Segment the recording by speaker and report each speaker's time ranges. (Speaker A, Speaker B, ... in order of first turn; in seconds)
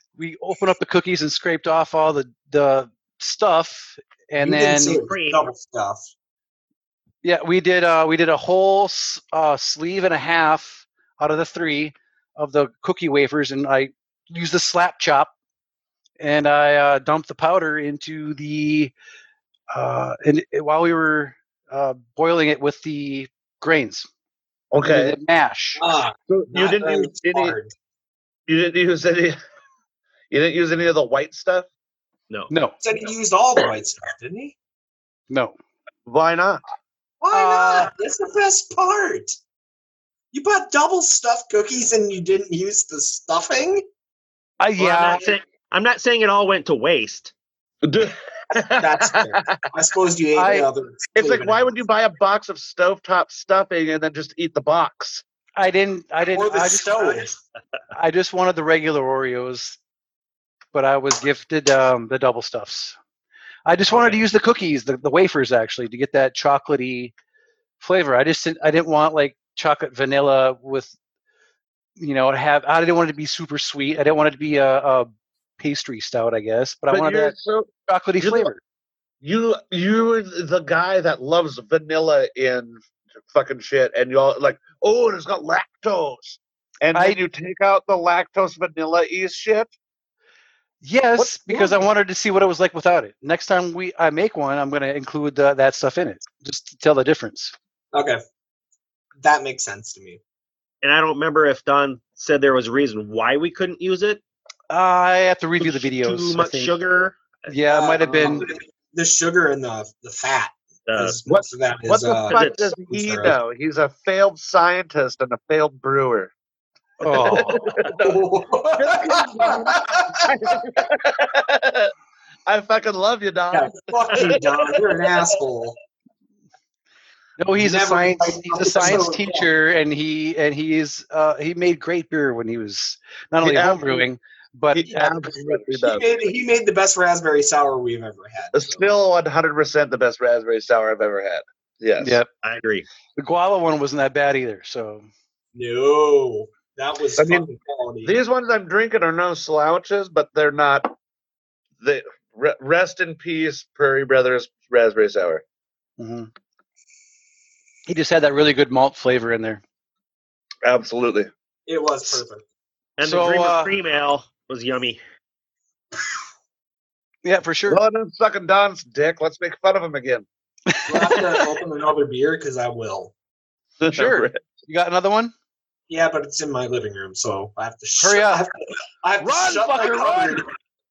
Speaker A: 0.2-5.0, 7.2-15.3, 16.2-18.9, 19.7-24.1, 24.8-25.8, 32.5-32.8, 35.3-35.5, 37.3-37.9, 44.6-45.3, 50.3-50.7, 55.5-57.2, 57.9-59.8, 60.7-63.0, 63.6-67.1, 67.8-70.9, 72.0-78.6, 90.8-97.5, 104.7-106.7, 107.5-108.5, 117.0-117.6, 127.4-135.7, 142.0-142.3, 143.2-145.1, 156.0-156.3, 157.9-159.6, 163.0-163.7, 167.2-167.8, 170.7-171.2, 173.9-175.3, 178.0-178.4, 179.2-180.4
Speaker B: 4.4-6.1, 25.8-27.7, 32.8-34.5, 37.2-39.4, 40.3-43.8, 48.8-51.6, 56.3-57.3, 97.9-98.2, 99.2-100.2, 107.7-113.3, 117.3-120.3, 123.5-125.8, 127.5-129.5, 135.8-138.9, 145.5-148.1, 161.7-162.4, 170.9-173.1, 175.9-180.5
Speaker C: 5.0-5.4, 44.8-47.3, 100.8-104.2, 105.6-107.5, 110.9-111.2, 112.3-112.7, 142.4-142.8, 163.0-165.0
Speaker D: 24.7-25.2, 26.3-27.5, 28.5-29.4, 30.3-31.7, 36.0-36.6, 47.8-49.6, 51.1-55.2, 76.9-78.5, 79.2-89.7, 91.2-91.8, 111.3-116.3, 117.1-118.2, 118.7-121.9, 122.5-125.1, 133.4-134.0, 134.7-136.0, 138.5-142.2, 147.2-147.4, 148.0-150.9, 151.8-155.4, 160.6-161.3, 167.7-170.3, 173.8-174.4